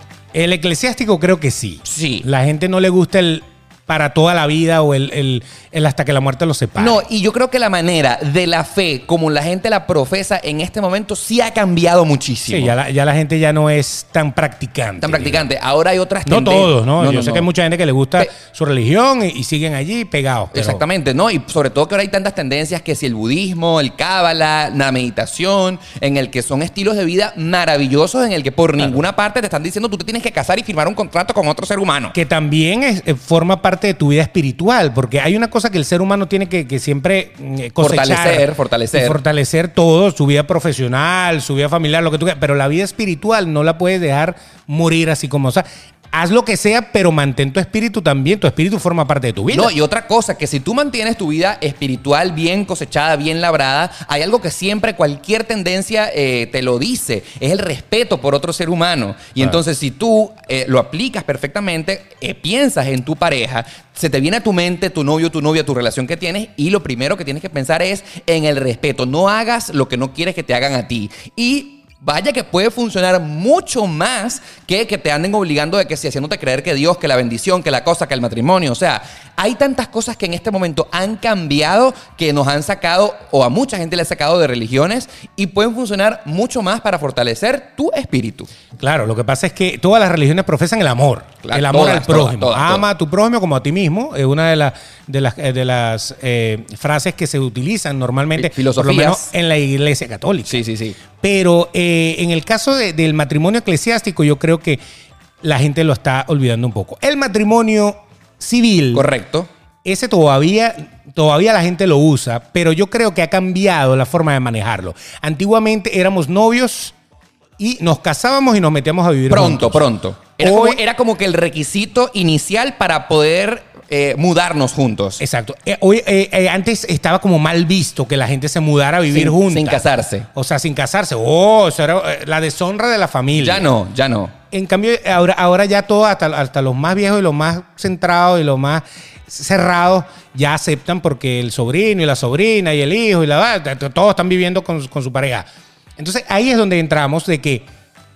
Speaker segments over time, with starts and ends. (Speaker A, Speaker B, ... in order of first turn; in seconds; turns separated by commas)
Speaker A: 0.3-7.0, Speaker B: 1.8-2.2, Speaker B: 6.8-12.7, Speaker A: 12.5-15.5, Speaker B: 15.0-17.5, Speaker A: 16.2-20.8, Speaker B: 20.5-32.1, Speaker A: 32.1-49.7, Speaker B: 37.8-39.2, Speaker B: 49.5-88.5, Speaker A: 88.8-104.8, Speaker B: 91.4-92.8, Speaker B: 98.3-99.2, Speaker B: 100.5-101.0, Speaker A: 105.4-109.1, Speaker B: 108.9-109.5, Speaker A: 109.8-116.9, Speaker A: 117.6-119.8, Speaker B: 119.3-125.2, Speaker A: 120.4-120.8, Speaker A: 125.2-133.7, Speaker B: 129.1-130.3, Speaker B: 133.3-134.3, Speaker A: 134.5-147.7